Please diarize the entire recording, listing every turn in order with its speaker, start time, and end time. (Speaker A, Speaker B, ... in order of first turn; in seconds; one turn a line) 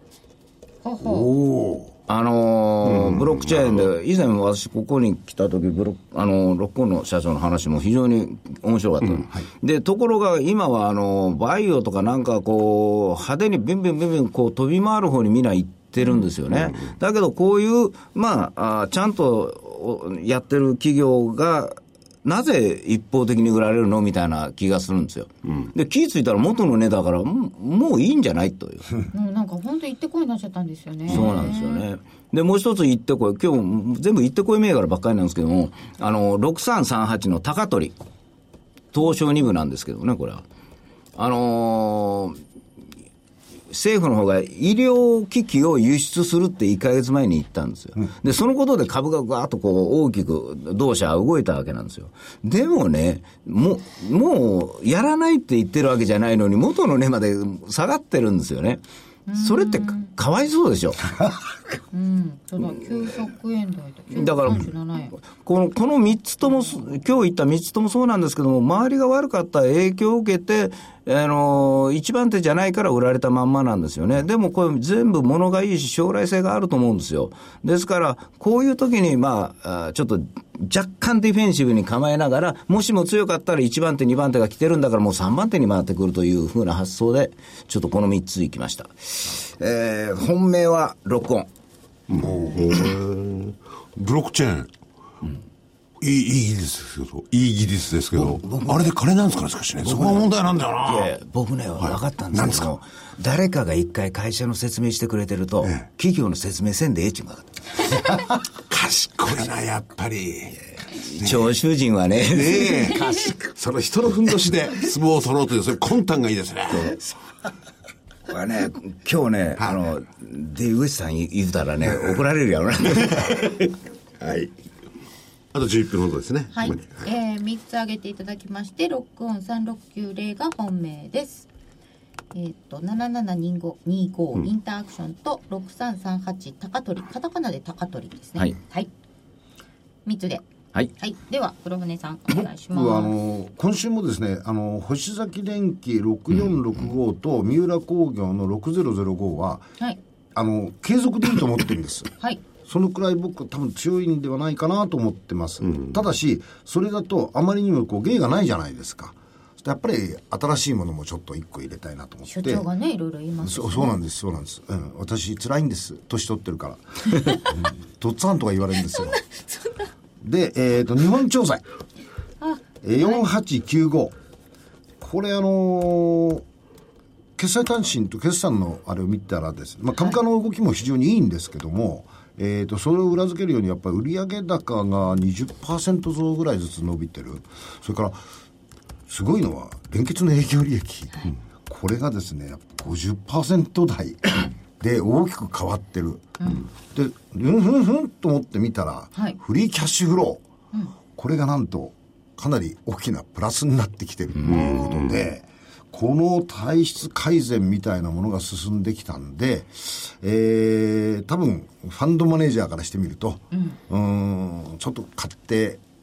Speaker A: 0.8-1.3
Speaker B: 1.0-1.9
Speaker C: 2.1-28.9
Speaker D: 2.9-3.8
Speaker A: 29.1-31.8
Speaker C: 31.1-38.0
Speaker C: 38.9-40.4
Speaker C: 41.1-42.4
Speaker C: 43.7-58.8
Speaker A: 59.3-60.1
Speaker C: 59.3-61.1
Speaker A: 61.9-65.1
Speaker C: 64.1-91.5
Speaker D: 92.1-94.7
Speaker D: 96.0-101.1
Speaker C: 99.8-100.3
Speaker C: 100.8-107.6
Speaker D: 101.8-102.7
Speaker D: 108.7-110.6
Speaker C: 110.9-113.0
Speaker D: 111.2-111.5
Speaker D: 112.3-117.0
Speaker C: 118.3-123.4
Speaker D: 124.2-124.5
Speaker D: 125.5-127.0
Speaker A: 126.5-131.5
Speaker A: 132.3-138.9
Speaker A: 140.0-140.4
Speaker A: 141.0-143.1
Speaker B: 142.3-149.7
Speaker B: 150.3-152.1
Speaker B: 152.6-162.7
Speaker A: 162.3-163.9
Speaker B: 163.4-169.2
Speaker A: 169.0-169.8
Speaker B: 170.2-171.6
Speaker A: 172.4-173.3
Speaker B: 172.8-174.1
Speaker B: 175.0-176.4
Speaker B: 177.4-188.2
Speaker B: 189.1-200.4
Speaker A: 196.4-196.6
Speaker B: 201.1-215.8
Speaker D: 204.4-205.1
Speaker A: 213.5-213.8